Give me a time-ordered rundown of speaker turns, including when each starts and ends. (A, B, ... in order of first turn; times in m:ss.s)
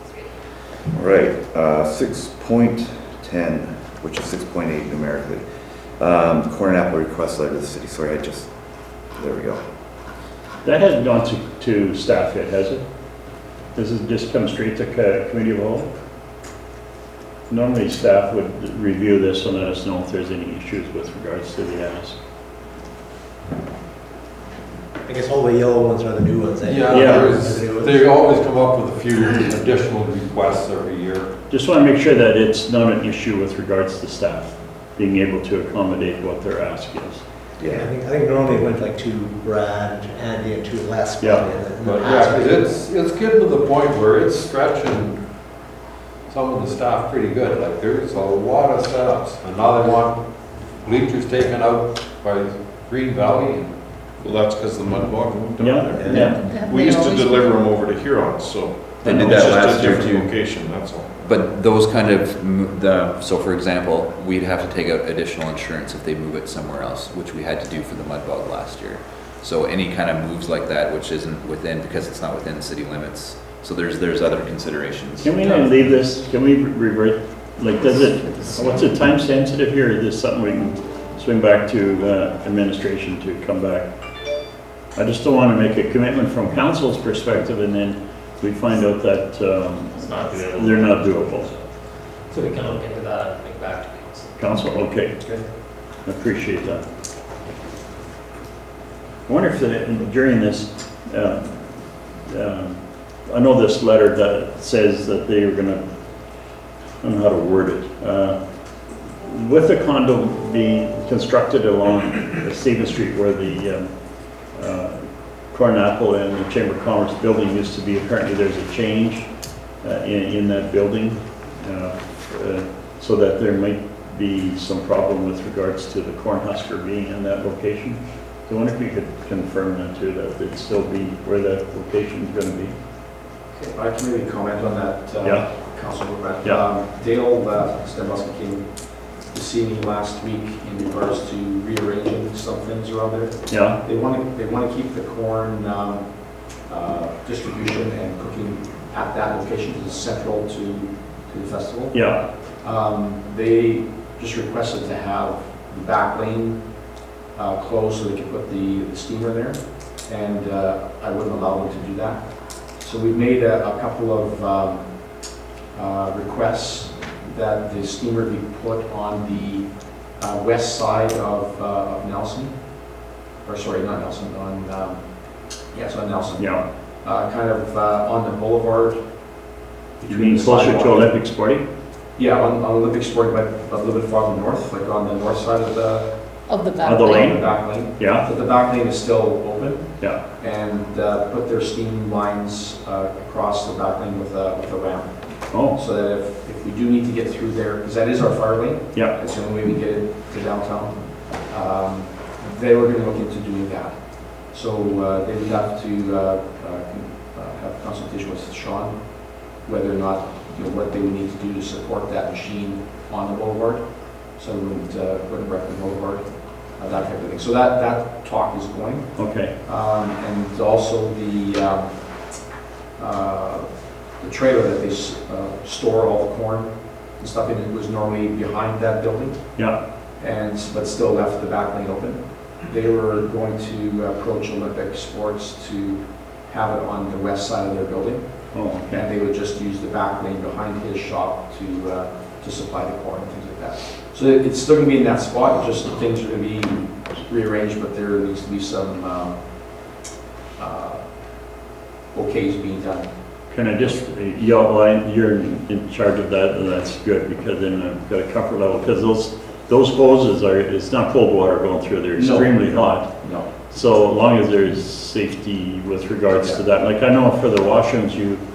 0:00.9-0:05.4 A
0:06.0-0:08.5 A
0:09.2-0:09.6 A
0:10.6-0:12.8 B
0:13.8-0:15.9 B
0:17.5-0:22.2 B
0:25.0-0:28.1 C
0:26.6-0:31.3 D
0:26.9-0:27.3 B
0:31.5-0:37.2 B
0:37.6-0:42.6 C
0:41.2-0:41.4 B
0:41.8-0:45.2 D
0:46.3-0:53.7 D
0:54.2-1:01.1 E
0:55.6-0:56.4 B
0:56.4-0:57.6 F
0:59.0-1:00.3 G
0:59.1-0:59.5 B
1:01.2-1:15.6 G
1:15.2-1:23.9 B
1:25.0-1:31.5 B
1:30.0-1:31.6 H
1:32.3-1:34.3 H
1:34.4-1:35.2 B
1:36.0-1:36.8 B
1:39.3-1:41.7 B
1:42.3-1:45.8 B
1:47.0-1:48.4 B
1:49.2-1:53.9 B
1:54.5-1:55.0 B
1:55.5-1:59.3 B
1:59.8-2:12.8 B
2:13.7-2:26.1 I
2:23.5-2:23.8 B
2:26.6-2:32.0 I
2:31.9-2:32.2 B
2:32.6-2:36.6 I
2:37.4-2:44.9 I
2:45.7-2:52.6 I
2:53.4-2:55.0 I
2:55.7-2:56.5 I
2:56.4-2:56.6 B
2:57.0-2:59.0 I
3:00.0-3:01.6 B
3:00.0-3:01.1 I
3:02.2-3:06.1 I
3:06.5-3:07.2 F
3:06.8-3:29.0 I
3:06.8-3:07.4 B
3:08.0-3:08.2 B
3:15.5-3:15.8 B
3:29.6-3:39.1 I
3:39.2-3:39.5 B
3:39.6-3:41.9 I
3:43.0-3:43.7 I
3:44.2-3:49.4 I
3:50.2-3:58.3 I
3:58.5-3:59.0 B
3:58.9-4:09.4 I
4:10.6-4:11.1 I
4:12.1-4:13.1 I
4:13.5-4:23.1 B
4:22.2-4:23.5 I
4:23.7-4:28.4 B